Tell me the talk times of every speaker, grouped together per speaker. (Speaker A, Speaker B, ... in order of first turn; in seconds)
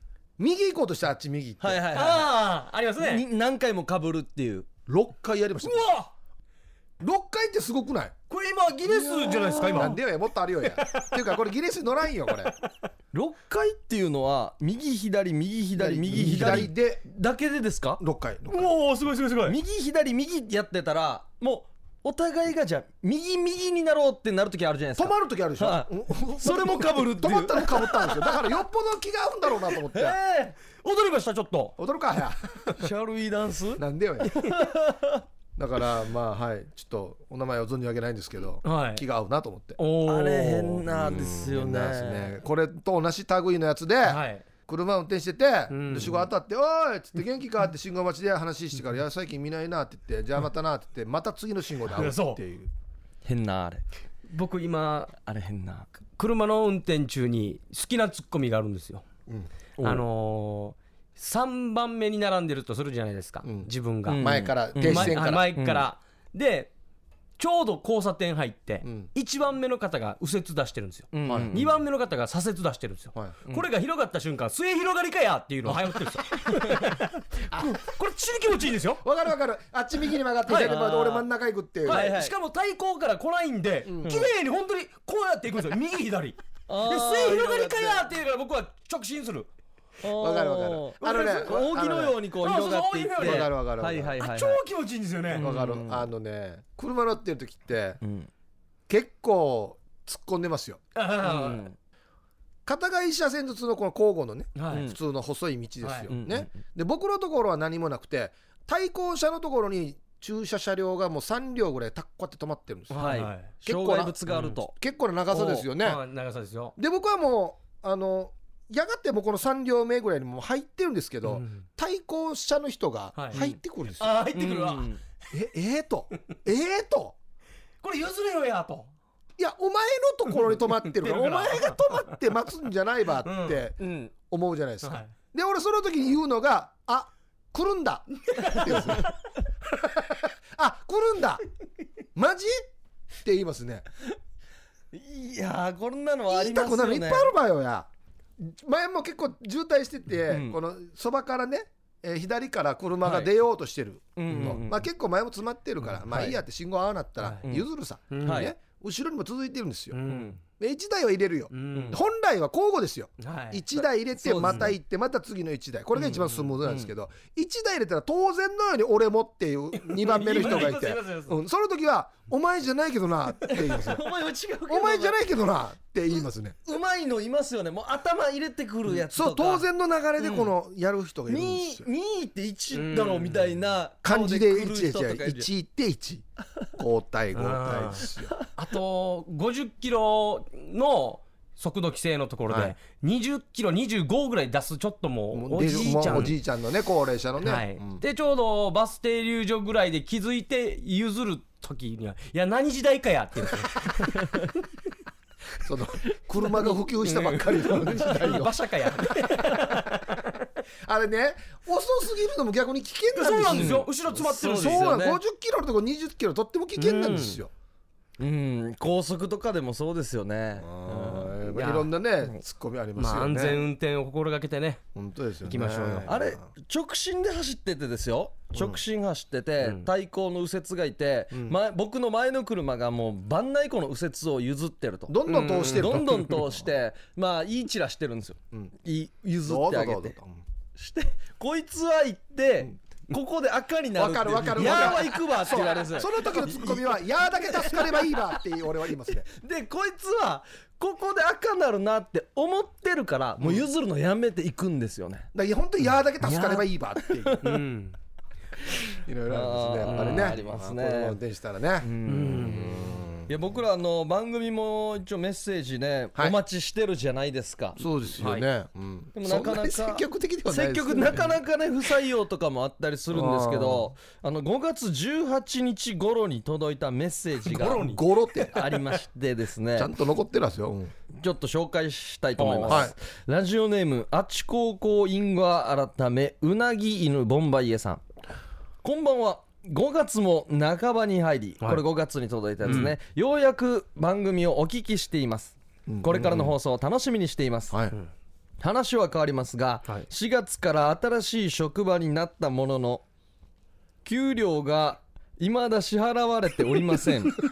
Speaker A: 0.4-1.8, 4.9-5.9, 7.0-8.2, 9.0-12.5, 15.8-17.1, 18.0-18.7, 25.0-30.2, 31.8-32.5, 33.8-34.6, 35.6-39.8, 40.9-52.7, 63.4-65.5, 68.8-69.1, 71.2-71.8, 79.0-82.1, 83.9-84.2, 90.2-92.2, 93.2-94.2, 95.3-98.0, 98.9-100.8, 102.7-116.0, 116.8-124.1, 125.3-127.2, 129.4-139.1, 139.9-141.4, 142.2-142.6, 143.2-143.9, 146.3-160.0, 160.5-174.0, 174.7-176.6, 178.9-181.9, 184.0-188.3, 192.5-192.8, 195.3-198.0, 205.6-209.8, 210.8-213.9, 214.4-217.5, 220.6-223.7, 225.0-226.5, 228.5-228.8, 235.1-236.6, 239.4-240.4, 244.0-249.3, 255.3-257.4, 259.0-261.9, 262.7-263.5, 267.8-271.4, 273.1-273.9, 277.6-278.7, 279.8-280.9, 282.7-282.9, 295.9-296.5
Speaker B: 1.6-2.3, 3.0-4.7, 9.2-9.9, 13.1-18.0, 19.4-28.1, 29.9-30.6, 32.8-35.2, 40.0-42.4, 53.2-53.8, 55.2-55.9, 59.8-60.0, 64.1-65.9, 71.1-71.7, 76.6-76.9, 80.5-81.2, 81.9-82.3, 84.0-84.3, 86.7-88.1, 90.0-94.6, 95.3-96.0, 98.0-98.3, 101.2-101.8, 104.7-105.0, 106.1-106.6, 113.0-114.7, 123.3-123.6, 124.3-125.0, 133.8-134.1, 144.9-147.3, 150.3-150.6, 154.2-154.8, 158.2-158.5, 164.2-164.7, 173.5-175.2, 176.7-179.7, 180.2-180.5, 181.3-185.5, 213.5-215.2, 218.2-221.3, 226.1-235.2, 235.7-240.2, 240.8-248.4, 249.3-255.3, 256.3-257.6, 259.3-261.2, 261.8-267.8, 269.2-277.9, 278.5-279.9, 281.1-288.0, 288.8-297.8, 298.6-303.0, 304.1-307.4
Speaker C: 1.9-3.2, 5.6-6.1, 8.3-10.0, 10.7-11.3, 18.5-19.6, 30.8-31.8, 38.6-39.0, 39.8-40.8, 44.0-44.5, 45.7-46.3, 51.9-52.4, 54.3-55.1, 56.2-59.0, 59.8-64.2, 64.8-66.7, 67.4-79.0, 80.6-81.1, 81.9-89.5, 92.4-93.5, 94.2-95.5, 101.0-101.6, 104.6-104.8, 105.8-106.1, 112.9-113.5, 114.3-114.6, 115.3-116.7, 121.3-121.7, 124.0-124.9, 127.8-128.9, 130.8-131.8, 133.2-133.6, 134.8-135.1, 138.3-139.1, 157.2-157.5, 158.1-158.5, 159.9-160.4, 161.5-162.0, 163.2-163.8, 169.8-171.4, 182.7-183.6, 187.3-196.4, 197.4-204.5, 206.6-210.4, 213.1-214.8, 216.8-217.4, 221.5-221.9, 223.0-224.8, 225.5-226.1, 229.6-229.9, 235.3-236.1, 244.6-245.6, 257.4-258.0, 259.9-260.4, 262.1-262.9, 268.2-268.5, 277.5-278.9, 282.4-282.9, 292.6-292.9